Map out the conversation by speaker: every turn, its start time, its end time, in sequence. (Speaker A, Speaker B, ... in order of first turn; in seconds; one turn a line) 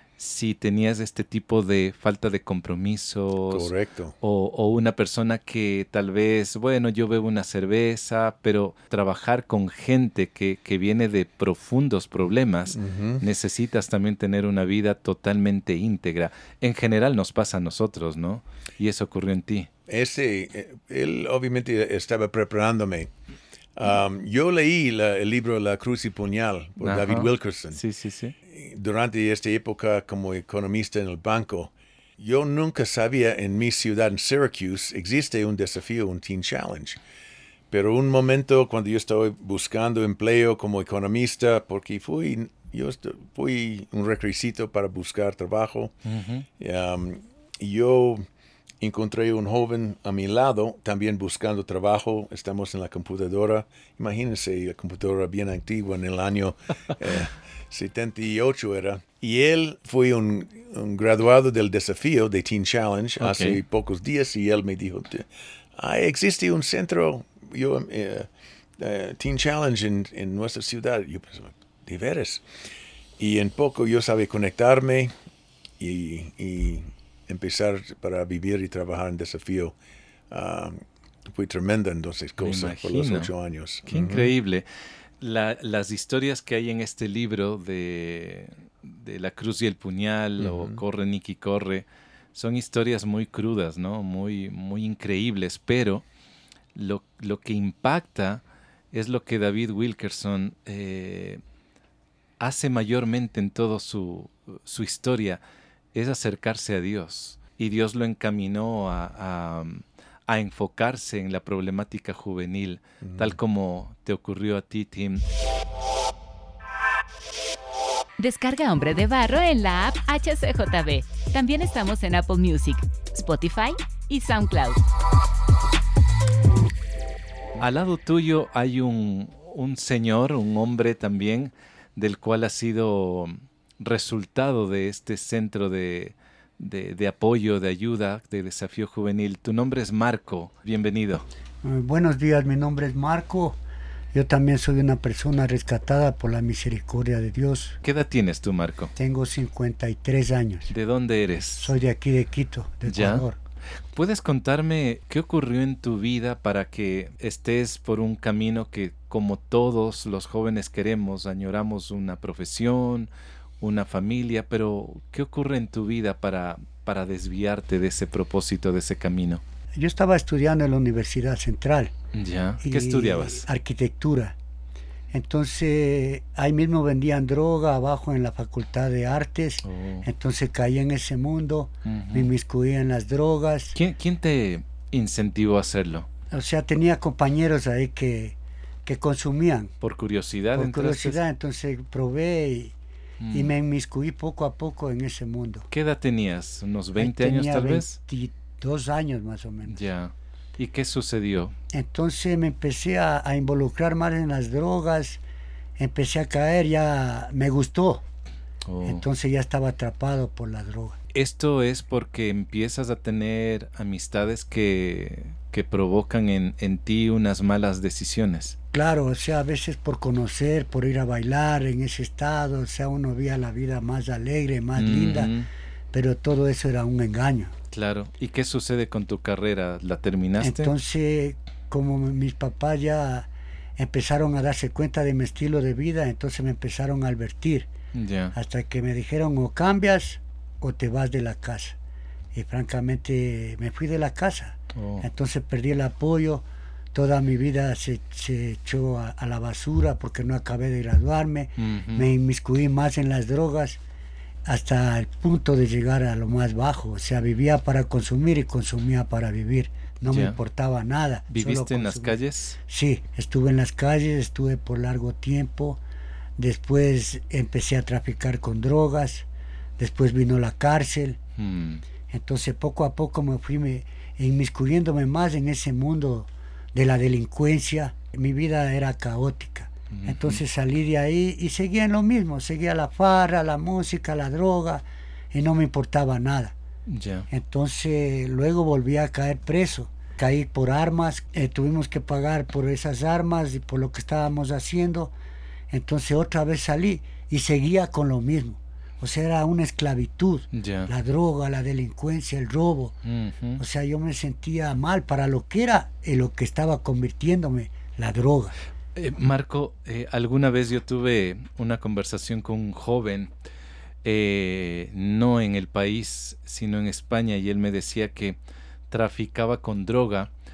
Speaker A: 0.2-3.7
Speaker B: 3.5-4.1
Speaker A: 4.2-19.7
Speaker B: 12.7-13.2
Speaker B: 19.9-23.1
Speaker B: 23.8-27.8
Speaker A: 26.8-28.3
Speaker B: 28.5-37.0
Speaker B: 37.7-46.0
Speaker A: 46.0-46.5
Speaker B: 46.6-48.2
Speaker B: 48.8-72.5
Speaker A: 63.2-63.6
Speaker B: 73.2-75.1
Speaker B: 75.8-79.7
Speaker B: 80.3-84.3
Speaker A: 82.4-83.3
Speaker A: 83.9-84.7
Speaker A: 85.2-96.0
Speaker B: 90.4-90.8
Speaker A: 96.7-101.4
Speaker A: 102.4-105.4
Speaker A: 105.9-115.2
Speaker B: 113.0-113.4
Speaker C: 118.2-124.8
Speaker A: 127.6-141.2
Speaker D: 141.6-143.6
Speaker D: 144.1-147.8
Speaker A: 147.8-148.9
Speaker D: 148.9-150.7
Speaker A: 150.7-151.7
Speaker D: 151.6-153.4
Speaker A: 152.8-153.2
Speaker A: 153.9-163.1
Speaker A: 163.6-169.4
Speaker D: 169.8-171.9
Speaker A: 172.1-173.4
Speaker D: 172.6-174.3
Speaker D: 175.1-183.8
Speaker A: 179.6-180.1
Speaker A: 181.8-182.3
Speaker A: 183.7-186.1
Speaker D: 186.3-189.7
Speaker A: 189.8-191.2
Speaker D: 190.5-192.7
Speaker A: 193.2-193.5
Speaker D: 193.3-195.7
Speaker A: 195.7-198.0
Speaker D: 197.0-199.8
Speaker A: 199.7-201.5
Speaker D: 201.7-205.2
Speaker D: 205.8-208.0
Speaker A: 208.7-209.0
Speaker D: 208.8-211.0
Speaker A: 211.1-218.6
Speaker D: 218.7-225.3
Speaker A: 224.8-225.5
Speaker D: 225.9-227.5
Speaker A: 227.7-230.7
Speaker D: 230.4-237.7
Speaker A: 237.9-238.3
Speaker D: 238.3-241.8
Speaker D: 242.3-253.8
Speaker A: 244.7-245.1
Speaker A: 251.6-252.1
Speaker D: 254.4-265.8
Speaker A: 260.1-260.4
Speaker A: 261.3-262.6
Speaker D: 266.4-269.2
Speaker D: 269.8-271.2
Speaker A: 271.4-271.8
Speaker D: 272.1-286.5
Speaker A: 279.9-280.4
Speaker A: 286.9-287.3
Speaker D: 287.3-295.1
Speaker D: 295.7-302.9
Speaker A: 300.5-300.9
Speaker A: 303.0-303.6
Speaker D: 303.6-308.6
Speaker A: 308.9-313.3
Speaker A: 314.0-318.4
Speaker A: 318.9-320.3